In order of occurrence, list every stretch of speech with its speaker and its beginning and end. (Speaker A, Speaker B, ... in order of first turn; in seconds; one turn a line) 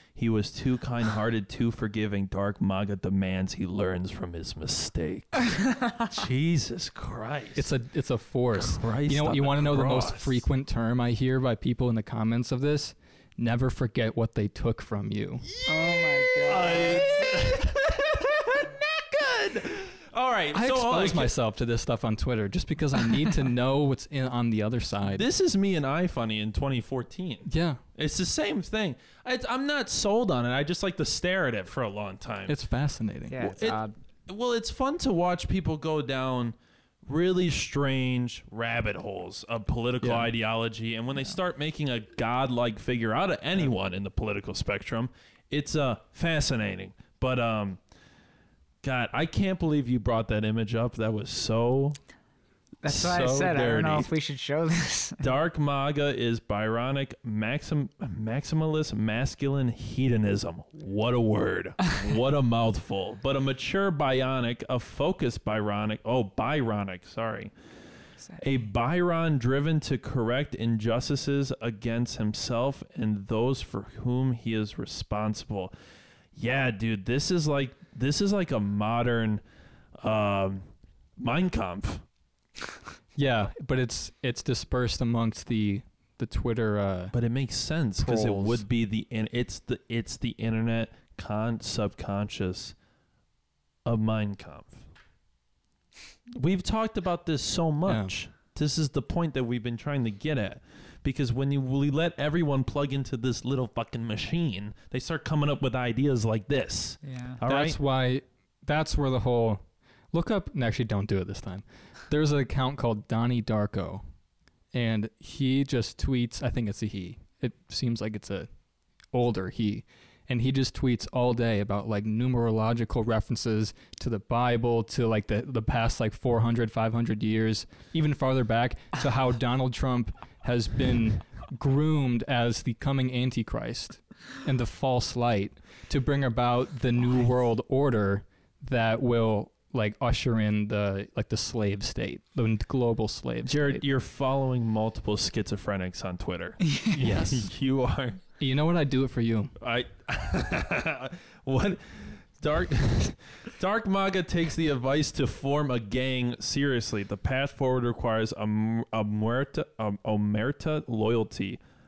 Speaker A: 0.1-7.7
Speaker B: 7.5-15.5
Speaker A: 8.5-10.4
Speaker A: 15.5-21.3
Speaker C: 15.6-17.6
Speaker B: 20.5-25.3
Speaker A: 25.1-32.5
Speaker B: 27.4-27.8
Speaker B: 32.5-33.4
Speaker C: 33.3-33.9
Speaker A: 33.4-47.8
Speaker B: 40.0-40.3
Speaker A: 48.8-52.0
Speaker C: 52.8-55.3
Speaker A: 52.8-54.1
Speaker A: 55.2-67.5
Speaker A: 68.4-75.7
Speaker A: 76.3-79.4
Speaker A: 80.0-80.7
Speaker A: 81.2-82.0
Speaker B: 83.2-87.1
Speaker A: 87.1-92.7
Speaker B: 88.0-88.6
Speaker A: 93.8-94.8
Speaker A: 96.3-107.8
Speaker B: 97.8-98.1
Speaker C: 107.0-107.4
Speaker B: 107.4-114.0
Speaker B: 114.7-118.5
Speaker B: 119.1-143.8
Speaker A: 143.4-148.2
Speaker C: 146.7-146.9
Speaker B: 147.0-147.5
Speaker B: 148.4-149.5
Speaker A: 149.6-161.6